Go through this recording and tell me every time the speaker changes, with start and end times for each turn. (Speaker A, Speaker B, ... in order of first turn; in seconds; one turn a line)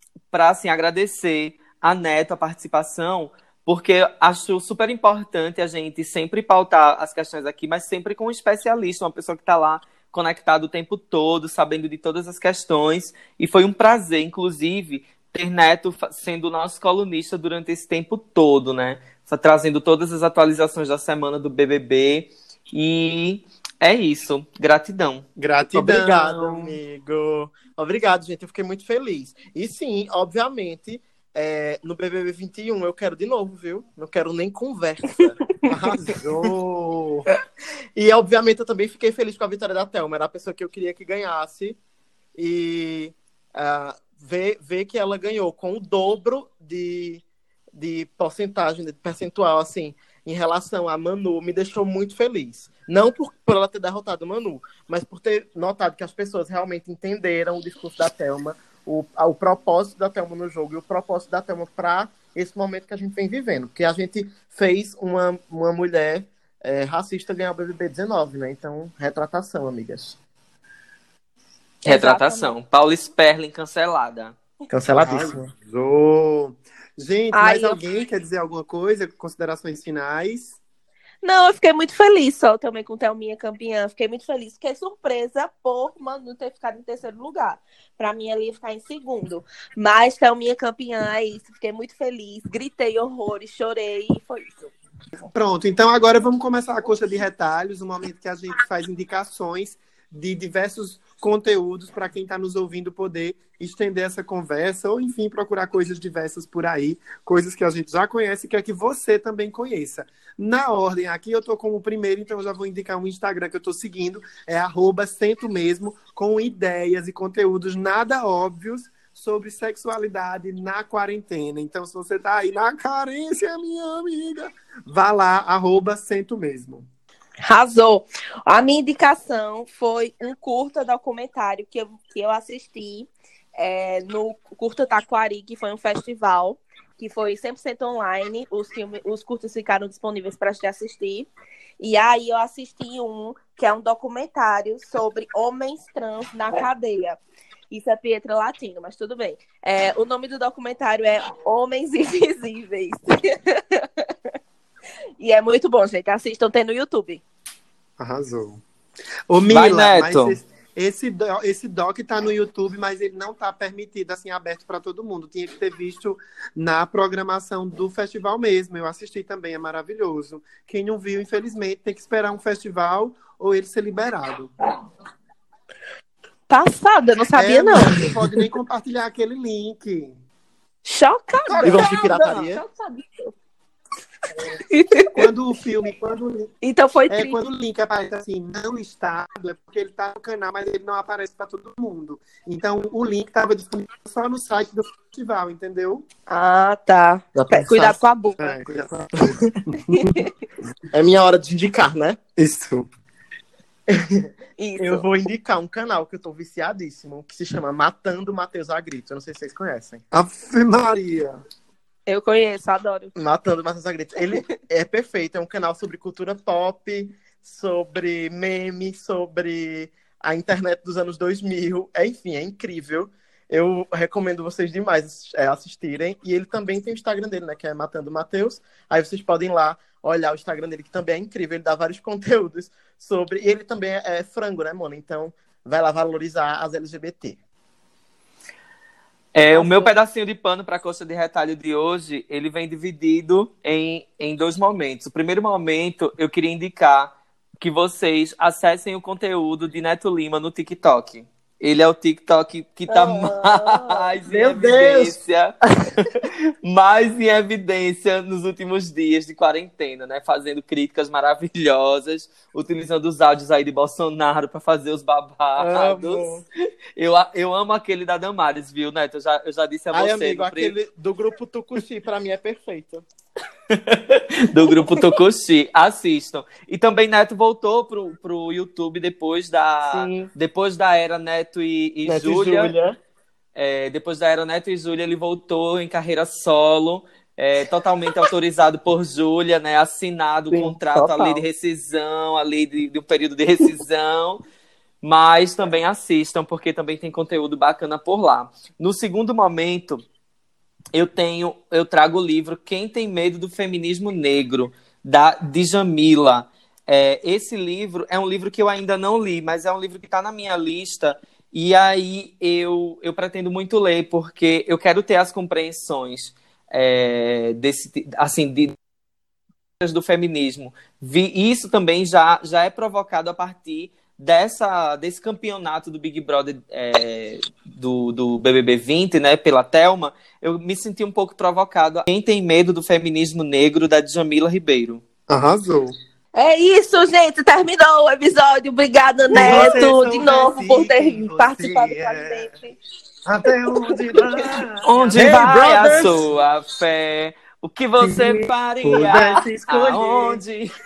Speaker A: 0.3-25.2
Speaker B: 25.4-26.8
Speaker C: 25.7-35.4
Speaker B: 35.7-37.2
Speaker C: 35.9-36.2
Speaker C: 38.0-41.8
Speaker C: 42.4-47.2
Speaker C: 47.8-70.2
Speaker A: 71.8-74.3
Speaker D: 71.8-72.5
Speaker C: 74.7-75.5
Speaker B: 75.0-80.5
Speaker D: 77.3-77.8
Speaker D: 81.2-94.7
Speaker B: 95.3-126.8
Speaker D: 127.4-141.3
Speaker D: 141.8-147.2
Speaker D: 147.7-154.1
Speaker D: 155.2-157.2
Speaker B: 158.0-158.6
Speaker B: 159.3-174.5
Speaker A: 159.5-160.4
Speaker D: 176.5-178.1
Speaker B: 177.3-180.2
Speaker D: 180.8-183.3
Speaker B: 181.5-182.5
Speaker C: 181.6-182.6
Speaker D: 184.7-185.1
Speaker B: 185.1-186.5
Speaker D: 186.6-187.4
Speaker B: 187.1-196.0
Speaker D: 196.3-198.4
Speaker C: 197.3-198.0
Speaker B: 198.4-200.2
Speaker C: 199.1-199.5
Speaker C: 200.9-202.2
Speaker B: 202.4-202.9
Speaker C: 203.9-204.3
Speaker D: 204.6-205.1
Speaker C: 204.8-210.0
Speaker B: 210.1-211.4
Speaker D: 212.1-213.1
Speaker C: 213.1-237.4
Speaker A: 239.3-256.1
Speaker C: 239.5-239.9
Speaker D: 252.9-254.1
Speaker C: 254.2-255.2
Speaker A: 256.6-266.4
Speaker C: 265.6-266.4
Speaker A: 267.0-270.7
Speaker C: 269.9-273.0
Speaker A: 273.7-282.7
Speaker C: 279.8-280.3
Speaker C: 282.0-283.0
Speaker A: 283.6-294.4
Speaker C: 290.5-291.4
Speaker A: 295.0-300.0
Speaker A: 300.9-318.7
Speaker A: 319.8-335.0
Speaker B: 335.3-335.9
Speaker D: 336.4-342.7
Speaker B: 339.3-342.5
Speaker B: 343.2-346.3
Speaker D: 343.9-344.5
Speaker A: 344.8-350.7
Speaker B: 348.0-350.4